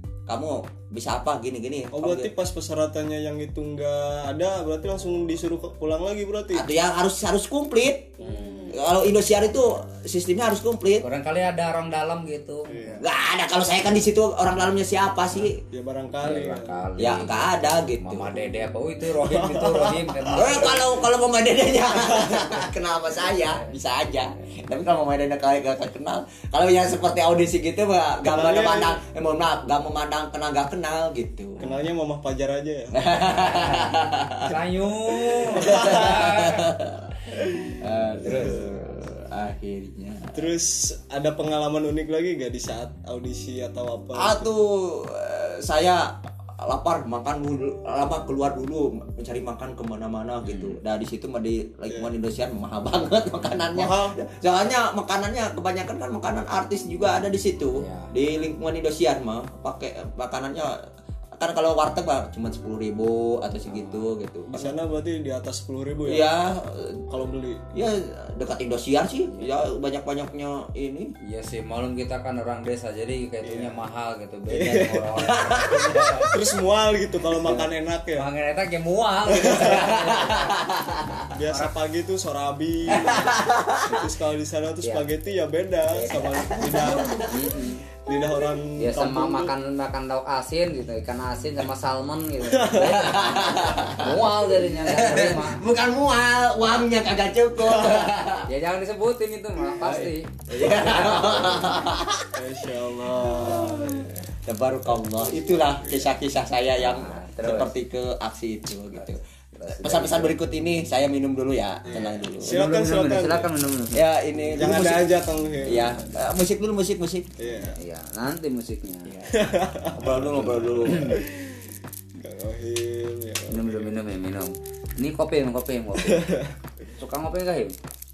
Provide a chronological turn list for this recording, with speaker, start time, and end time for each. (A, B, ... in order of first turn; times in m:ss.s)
0:00.3-0:02.3 A
0:01.9-0:06.7 B
0:06.5-0:08.2 A
0:08.2-0:08.7 C
0:08.7-0:11.0 A
0:11.0-0:12.8 C
0:12.7-0:13.0 B
0:13.0-0:15.6 A
0:15.7-0:16.8 B
0:16.2-0:20.8 C
0:17.0-0:18.5 A
0:19.2-0:20.5 B
0:20.3-0:31.7 A
0:28.2-0:29.0 B
0:31.6-0:33.0 B
0:32.9-0:34.5 A
0:34.4-0:36.7 C
0:35.3-0:37.1 A
0:35.6-0:36.0 B
0:37.7-0:40.5 A
0:38.1-0:38.9 C
0:40.3-0:44.5 B
0:44.1-0:46.1 A
0:46.6-1:00.8 A
0:50.4-0:50.8 C
0:53.7-0:54.2 B
0:57.8-0:58.1 C
1:01.4-1:04.8 A
1:03.7-1:04.0 C
1:04.5-1:06.3 B
1:06.0-1:07.0 A
1:07.1-1:07.6 B
1:07.7-1:11.1 A
1:11.2-1:16.3 C
1:13.4-1:13.8 B
1:14.5-1:18.3 B
1:15.3-1:16.3 A
1:18.1-1:21.7 C
1:19.3-1:20.0 B
1:19.6-1:21.2 A
1:21.3-1:27.3 B
1:22.9-1:24.1 A
1:25.9-1:27.8 C
1:26.3-1:27.4 A
1:28.0-1:29.5 B
1:28.8-1:35.6 C
1:32.5-1:33.0 B
1:32.8-1:34.2 A
1:34.8-1:38.5 A
1:38.4-1:41.7 C
1:39.8-1:42.3 A
1:42.3-1:44.1 B
1:43.3-1:52.6 A
1:46.8-1:47.7 C
1:49.6-1:50.4 C
1:51.8-1:53.5 B
1:52.4-1:54.0 C
1:53.9-1:57.4 A
1:54.5-1:56.0 B
1:57.4-1:57.7 B
1:57.7-1:59.1 C
1:59.0-2:01.2 A
1:59.3-2:01.7 B
2:00.8-2:01.2 C
2:02.2-2:03.9 B
2:03.5-2:06.3 C
2:06.0-2:06.5 B
2:07.0-2:07.8 C